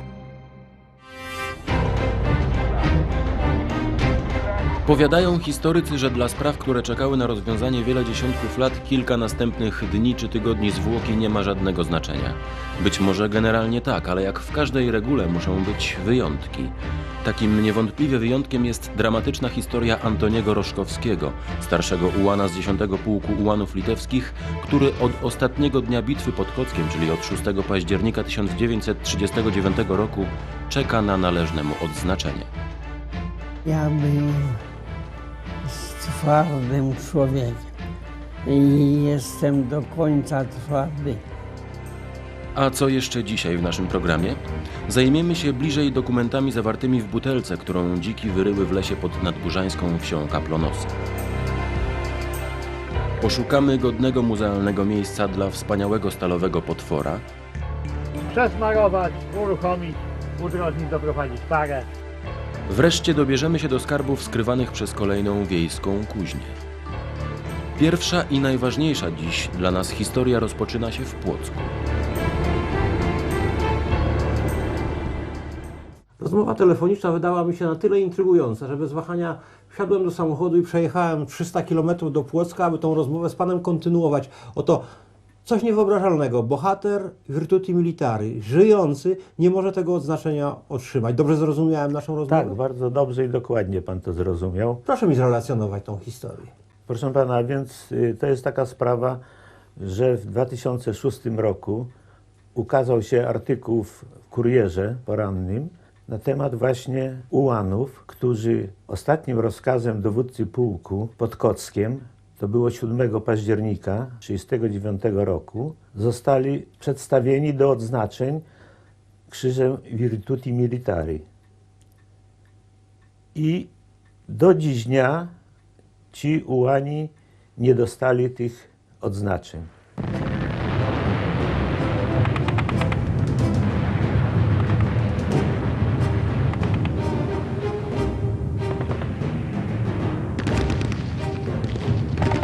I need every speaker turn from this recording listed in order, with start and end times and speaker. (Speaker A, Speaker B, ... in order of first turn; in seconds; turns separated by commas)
Speaker A: 4.8-32.5, Speaker B: 33.6-34.6, Speaker B: 35.6-37.7, Speaker B: 38.5-41.2, Speaker A: 42.5-50.9, Speaker A: 53.2-57.2, Speaker C: 58.3-61.9, Speaker A: 62.7-66.6, Speaker A: 67.8-71.7, Speaker D: 76.2-84.9, Speaker D: 85.5-92.5, Speaker E: 92.3-94.8, Speaker D: 94.8-96.5, Speaker E: 96.9-99.2, Speaker E: 99.8-101.9, Speaker E: 102.5-118.5, Speaker E: 119.3-121.3, Speaker E: 123.3-123.7, Speaker E: 124.3-125.4, Speaker E: 126.1-129.7